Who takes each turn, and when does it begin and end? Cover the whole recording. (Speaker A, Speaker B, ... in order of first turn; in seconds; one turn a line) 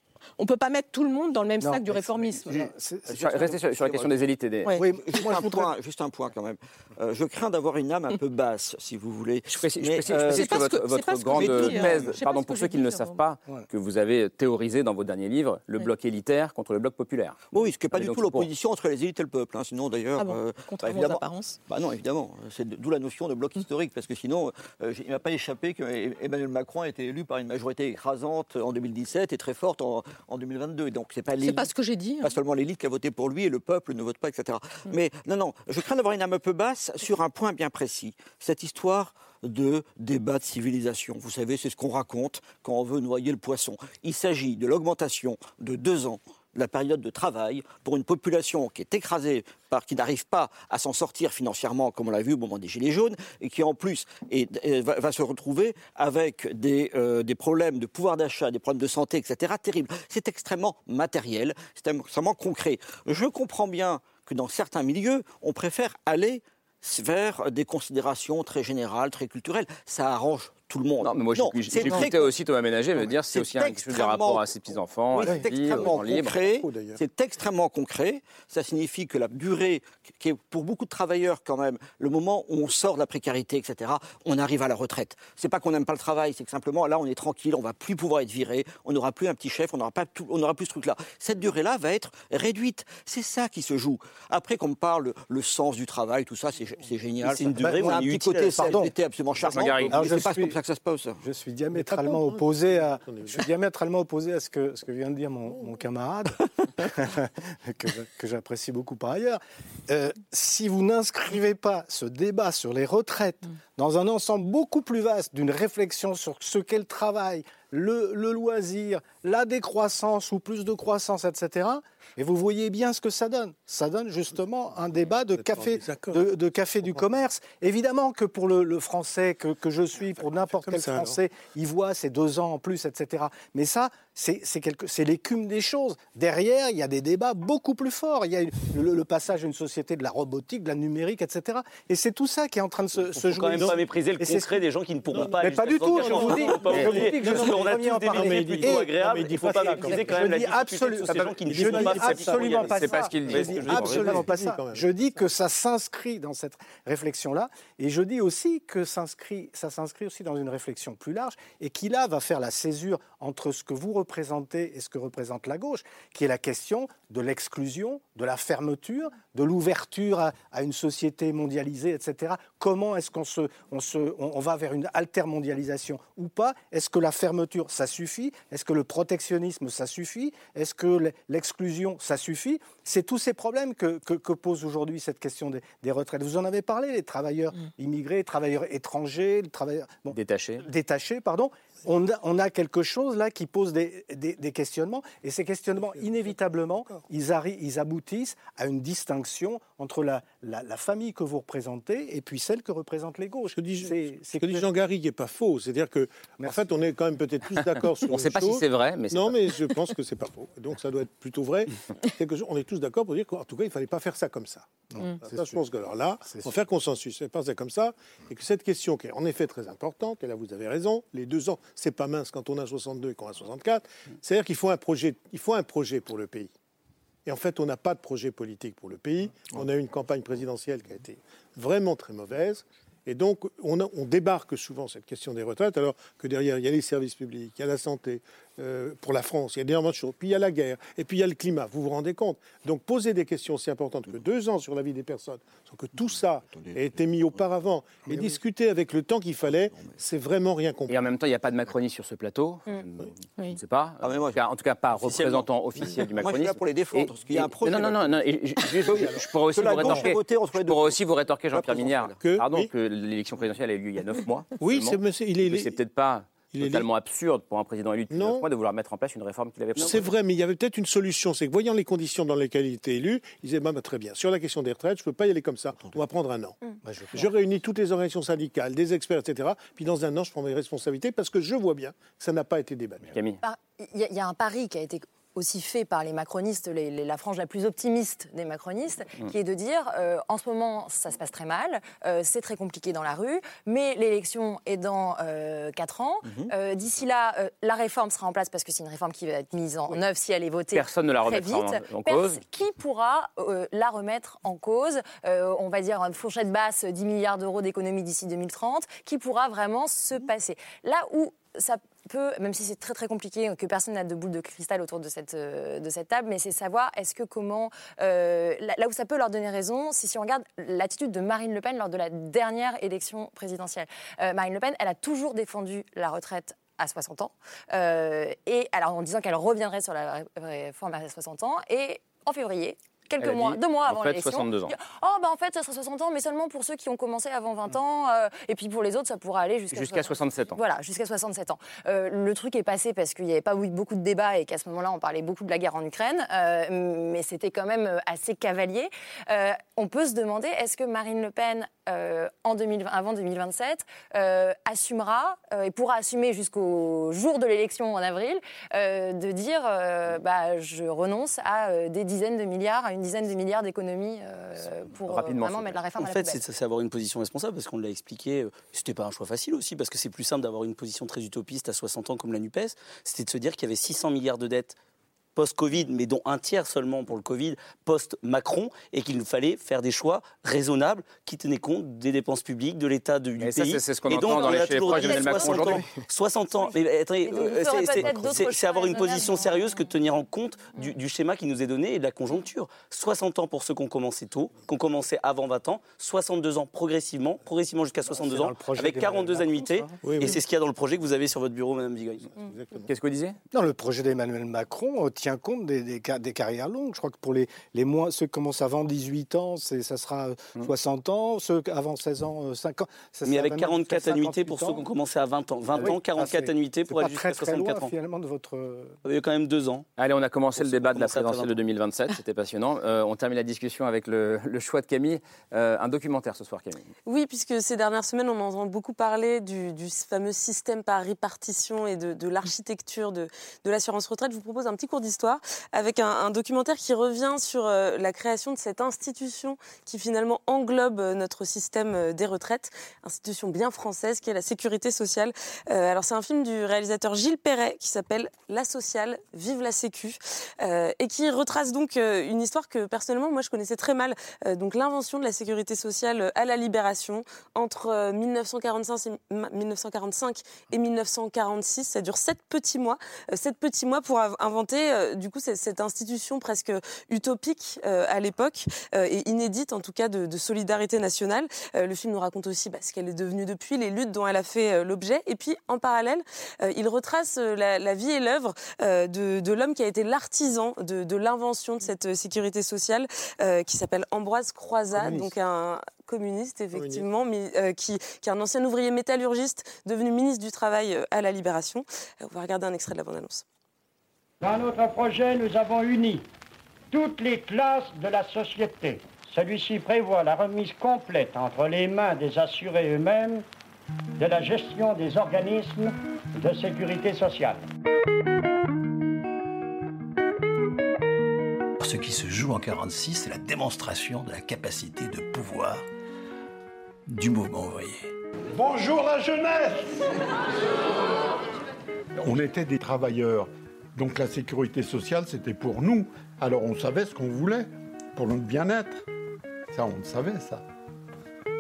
Speaker A: 0.4-2.5
Speaker B: 1.6-3.6
Speaker C: 2.5-4.8
Speaker D: 3.4-4.1
Speaker B: 4.8-5.7
Speaker D: 5.0-10.7
Speaker C: 9.5-18.5
Speaker A: 10.2-13.2
Speaker D: 11.3-12.0
Speaker D: 17.5-72.3
Speaker A: 20.2-21.6
Speaker A: 31.4-32.3
Speaker C: 71.0-76.4
Speaker D: 73.1-101.2
Speaker E: 75.3-77.0
Speaker F: 97.2-98.8
Speaker B: 97.6-98.0
Speaker B: 98.5-98.9
Speaker C: 99.4-100.2
Speaker B: 99.8-100.6
Speaker B: 101.2-144.6
Speaker E: 101.8-103.5
Speaker E: 125.3-126.3
Speaker E: 130.2-131.2
Speaker F: 143.2-154.1
Speaker B: 145.1-148.9
Speaker E: 145.1-150.6
Speaker B: 149.6-204.7
Speaker E: 151.1-154.9
Speaker C: 151.1-154.3
Speaker C: 190.1-190.7
Speaker E: 195.8-197.0
Speaker E: 203.5-226.5
Speaker B: 206.4-206.7
Speaker C: 207.6-209.6
Speaker B: 214.9-215.6
Speaker B: 216.2-216.6
Speaker E: 227.3-251.0
Speaker D: 246.0-247.4
Speaker B: 248.1-248.3
Speaker D: 249.7-250.0
Speaker C: 250.9-270.1
Speaker D: 254.0-254.4
Speaker D: 254.9-262.2
Speaker E: 258.9-260.1
Speaker E: 262.2-262.7
Speaker E: 264.6-265.8
Speaker E: 266.5-266.9
Speaker E: 268.1-268.5
Speaker E: 269.8-276.6
Speaker B: 276.8-277.3
Speaker E: 277.1-283.1
Speaker C: 283.1-283.4
Speaker G: 283.4-366.4
Speaker D: 296.2-296.5
Speaker C: 300.7-302.4
Speaker C: 333.2-334.8
Speaker C: 339.7-340.6
Speaker C: 365.0-365.8
Speaker F: 366.0-374.8
Speaker F: 375.4-402.3
Speaker C: 383.4-385.8
Speaker G: 384.5-385.5
Speaker G: 387.2-389.9
Speaker B: 387.9-388.5
Speaker B: 398.1-400.4
Speaker E: 400.0-400.4
Speaker E: 402.4-402.9
Speaker C: 402.9-403.4
Speaker B: 403.5-414.9
Speaker F: 413.2-417.9
Speaker B: 415.8-418.9
Speaker F: 419.1-419.9
Speaker C: 420.0-426.9
Speaker F: 420.6-421.6
Speaker H: 427.1-493.4
Speaker E: 484.9-485.3
Speaker E: 486.7-487.1
Speaker I: 494.4-496.3
Speaker I: 496.9-503.4
Speaker I: 504.2-507.6
Speaker J: 511.8-515.9
Speaker J: 517.1-518.1
Speaker K: 518.5-520.0
Speaker K: 522.2-529.0
Speaker K: 529.7-530.6